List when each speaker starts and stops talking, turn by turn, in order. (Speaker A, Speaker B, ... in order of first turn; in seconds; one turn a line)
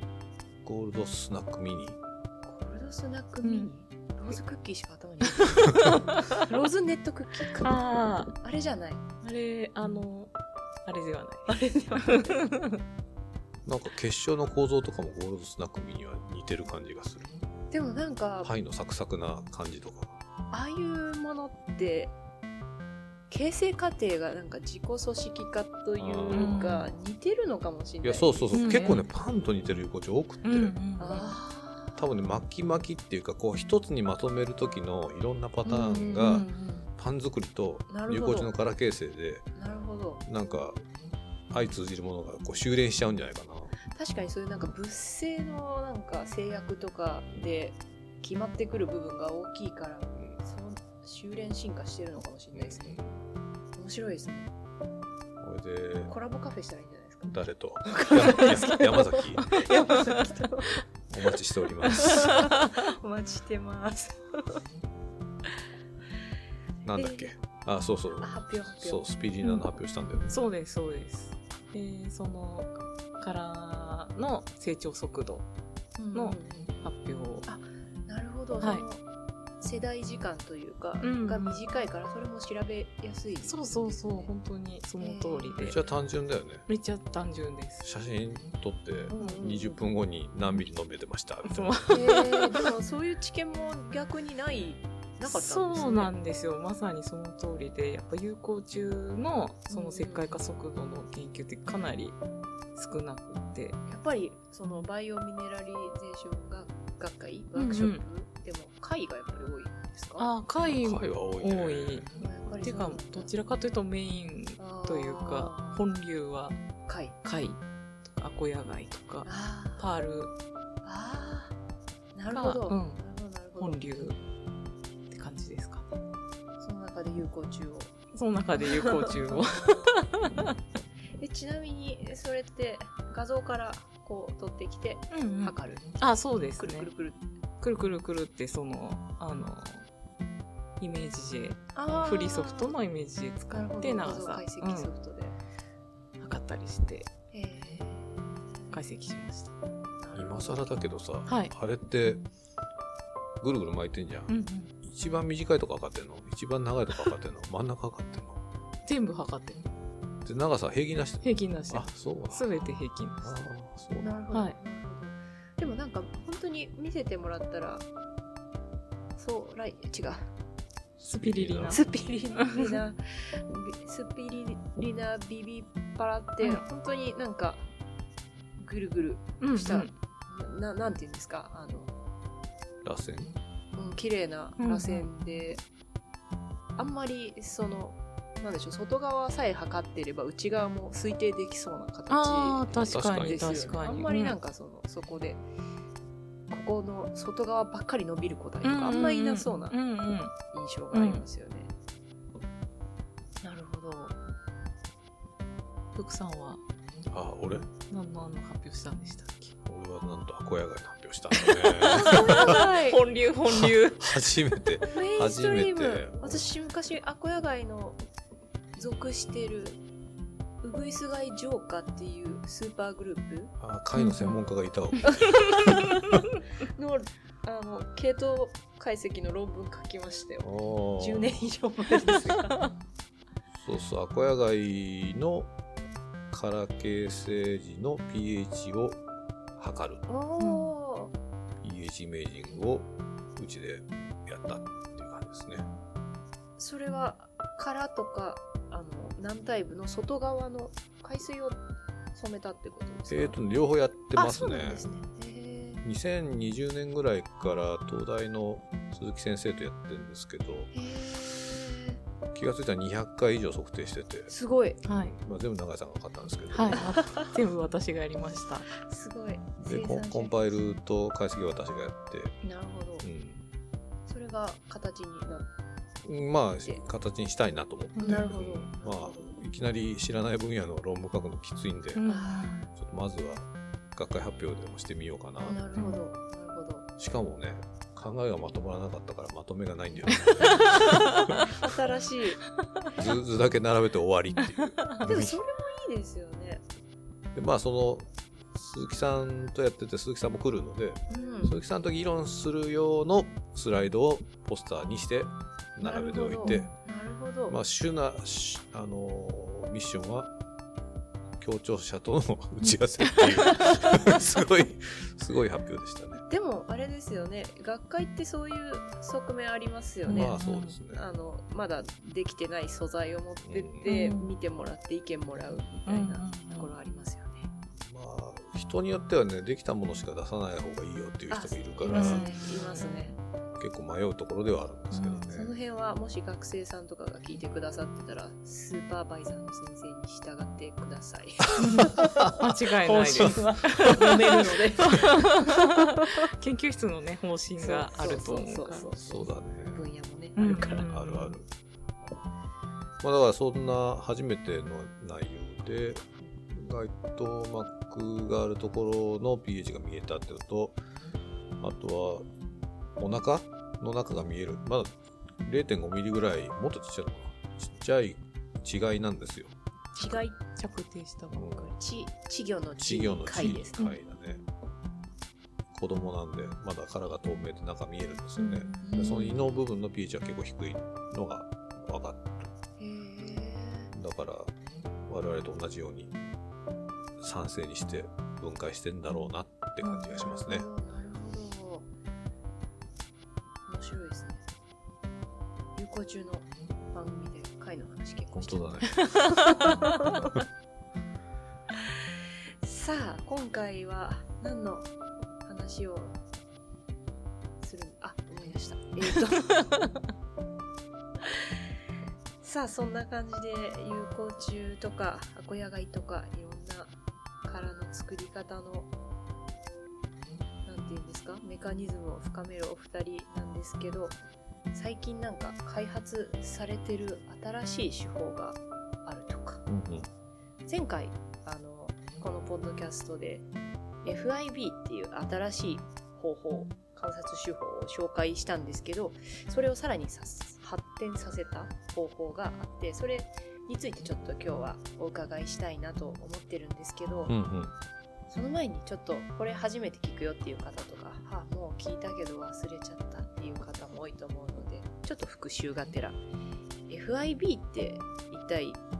Speaker A: 0.6-2.0
Speaker B: 2.5-7.7
Speaker C: 3.4-3.7
Speaker C: 5.4-6.0
Speaker C: 7.6-8.3
Speaker B: 8.4-9.0
Speaker C: 9.2-10.3
Speaker C: 10.8-12.8
Speaker B: 11.5-12.4
Speaker A: 13.7-17.3
Speaker B: 17.7-18.5
Speaker A: 18.4-20.2
Speaker B: 20.5-22.1
Speaker B: 23.3-28.6
Speaker A: 26.0-26.7
Speaker C: 26.3-26.9
Speaker A: 28.0-30.8
Speaker C: 28.5-29.1
Speaker C: 30.4-31.4
Speaker B: 31.0-32.1
Speaker A: 31.9-39.5
Speaker B: 35.6-36.4
Speaker C: 35.7-36.9
Speaker B: 37.9-38.5
Speaker B: 39.5-40.2
Speaker A: 40.2-40.8
Speaker A: 41.5-43.7
Speaker B: 43.9-53.0
Speaker A: 52.5-53.1
Speaker B: 53.8-54.5
Speaker A: 55.4-56.1
Speaker B: 56.1-60.8
Speaker A: 57.3-59.6
Speaker A: 61.1-62.4
Speaker B: 61.8-64.6
Speaker C: 61.9-62.4
Speaker A: 66.8-70.4
Speaker B: 66.9-67.3
Speaker B: 68.2-69.0
Speaker C: 70.3-75.5
Speaker B: 76.0-76.7
Speaker C: 76.1-77.5
Speaker B: 77.5-79.0
Speaker B: 79.6-84.3
Speaker C: 81.0-81.6
Speaker C: 83.4-85.8
Speaker B: 85.0-85.8
Speaker A: 85.6-86.7
Speaker C: 86.7-87.9
Speaker A: 87.8-91.9
Speaker B: 89.1-89.8
Speaker C: 89.1-89.4
Speaker C: 91.4-92.7
Speaker B: 91.9-96.1
Speaker C: 95.2-102.2
Speaker B: 99.7-100.3
Speaker C: 102.7-103.8
Speaker B: 103.9-110.3
Speaker C: 107.5-108.0
Speaker C: 110.2-116.6
Speaker A: 110.7-112.1
Speaker B: 112.2-113.3
Speaker B: 114.6-115.8
Speaker B: 116.8-117.1
Speaker C: 117.2-120.3
Speaker B: 119.2-119.8
Speaker B: 120.8-121.5
Speaker B: 122.1-123.8
Speaker C: 122.3-123.0
Speaker C: 123.6-124.2
Speaker C: 125.1-125.8
Speaker B: 126.6-127.9
Speaker C: 128.1-130.5
Speaker B: 128.6-129.4
Speaker B: 131.2-135.8
Speaker C: 135.1-136.9
Speaker B: 136.6-137.2
Speaker C: 137.6-139.9
Speaker C: 140.8-144.9
Speaker B: 141.7-142.7
Speaker B: 143.5-145.4
Speaker C: 146.2-147.1
Speaker B: 147.3-148.8
Speaker C: 148.7-149.5
Speaker B: 150.0-150.8
Speaker A: 150.1-152.2
Speaker C: 151.2-151.5
Speaker A: 153.4-158.4
Speaker C: 154.3-154.7
Speaker C: 158.8-159.6
Speaker A: 160.2-162.7
Speaker C: 161.2-163.5
Speaker A: 163.2-164.2
Speaker B: 164.0-167.8
Speaker B: 169.2-170.3
Speaker A: 171.0-172.0
Speaker C: 171.1-171.8
Speaker B: 171.7-177.7
Speaker C: 172.4-172.8
Speaker B: 178.6-181.9
Speaker C: 179.4-179.9
Speaker A: 182.8-183.3
Speaker B: 183.8-185.6
Speaker C: 184.6-185.1
Speaker B: 186.8-195.4
Speaker C: 192.1-194.4
Speaker A: 192.8-193.7
Speaker B: 196.5-199.8
Speaker C: 198.6-200.3
Speaker B: 200.5-201.7
Speaker C: 200.9-201.2
Speaker B: 203.4-204.2
Speaker C: 205.9-206.6
Speaker A: 207.1-207.7
Speaker C: 207.9-209.5
Speaker A: 209.6-212.6
Speaker C: 211.3-214.2
Speaker B: 211.9-213.0
Speaker A: 213.5-216.4
Speaker B: 214.9-218.0
Speaker B: 218.8-219.8
Speaker B: 220.6-223.5
Speaker A: 223.6-226.2
Speaker C: 223.9-224.4
Speaker B: 226.7-232.6
Speaker A: 230.4-231.5
Speaker A: 232.1-232.4
Speaker A: 233.6-235.5
Speaker A: 236.3-239.0
Speaker A: 239.6-240.0
Speaker B: 240.1-241.1
Speaker C: 240.4-240.7
Speaker A: 241.6-245.7
Speaker B: 246.6-251.6
Speaker B: 252.1-253.3
Speaker A: 253.1-254.8
Speaker B: 254.1-255.8
Speaker A: 255.8-260.7
Speaker B: 260.7-262.0
Speaker A: 262.3-264.3
Speaker B: 264.3-264.8
Speaker C: 264.8-265.1
Speaker A: 264.9-267.1
Speaker C: 266.5-268.7
Speaker B: 266.7-267.3
Speaker B: 268.7-270.5
Speaker A: 269.6-272.4
Speaker B: 272.4-273.1
Speaker A: 273.0-273.5
Speaker B: 274.1-275.5
Speaker A: 276.0-282.0
Speaker C: 278.0-278.3
Speaker B: 278.0-279.4
Speaker C: 281.9-282.6
Speaker B: 282.1-282.6
Speaker A: 282.7-285.6
Speaker B: 285.4-286.9
Speaker C: 285.7-286.0
Speaker A: 287.0-291.4
Speaker B: 291.6-292.4
Speaker A: 292.9-295.4
Speaker C: 294.6-294.9
Speaker B: 295.0-296.6
Speaker A: 297.3-306.7
Speaker B: 301.1-301.6
Speaker B: 305.8-307.6
Speaker C: 306.4-306.7
Speaker A: 307.5-310.3
Speaker A: 311.4-316.2
Speaker C: 313.1-313.5
Speaker B: 316.3-320.4
Speaker C: 320.1-320.8
Speaker A: 320.1-321.0
Speaker B: 320.9-327.5
Speaker A: 323.4-323.9
Speaker C: 323.9-324.3
Speaker C: 325.9-326.7
Speaker A: 327.8-332.3
Speaker B: 331.3-333.2
Speaker C: 331.9-333.2
Speaker A: 333.6-335.5
Speaker C: 334.9-335.3
Speaker B: 335.3-342.1
Speaker C: 341.6-348.9
Speaker A: 341.7-342.4
Speaker B: 342.8-346.0
Speaker A: 342.9-343.9
Speaker B: 347.6-351.0
Speaker A: 349.0-349.8
Speaker C: 350.4-351.3
Speaker A: 350.4-351.5
Speaker A: 353.0-360.8
Speaker A: 361.6-362.3
Speaker A: 363.0-369.5
Speaker C: 369.9-371.6
Speaker B: 370.0-370.4
Speaker A: 371.3-371.7
Speaker B: 371.5-373.8
Speaker A: 372.8-374.4
Speaker A: 375.7-382.5
Speaker C: 378.4-379.3
Speaker B: 378.8-379.6
Speaker B: 382.8-383.9
Speaker A: 383.9-384.5
Speaker A: 385.1-386.1
Speaker A: 387.2-390.7
Speaker C: 389.8-390.2
Speaker B: 390.1-391.9
Speaker B: 393.7-394.4
Speaker B: 395.8-400.3
Speaker A: 398.3-399.0
Speaker C: 399.0-399.6
Speaker B: 402.6-404.9
Speaker B: 405.4-406.1
Speaker B: 407.6-409.8
Speaker B: 412.4-416.9
Speaker B: 417.4-418.9
Speaker B: 420.6-424.2
Speaker B: 424.7-429.6
Speaker A: 429.7-430.1
Speaker B: 430.6-433.5
Speaker B: 434.0-447.3
Speaker A: 447.3-447.7
Speaker B: 448.3-456.2
Speaker B: 456.9-458.8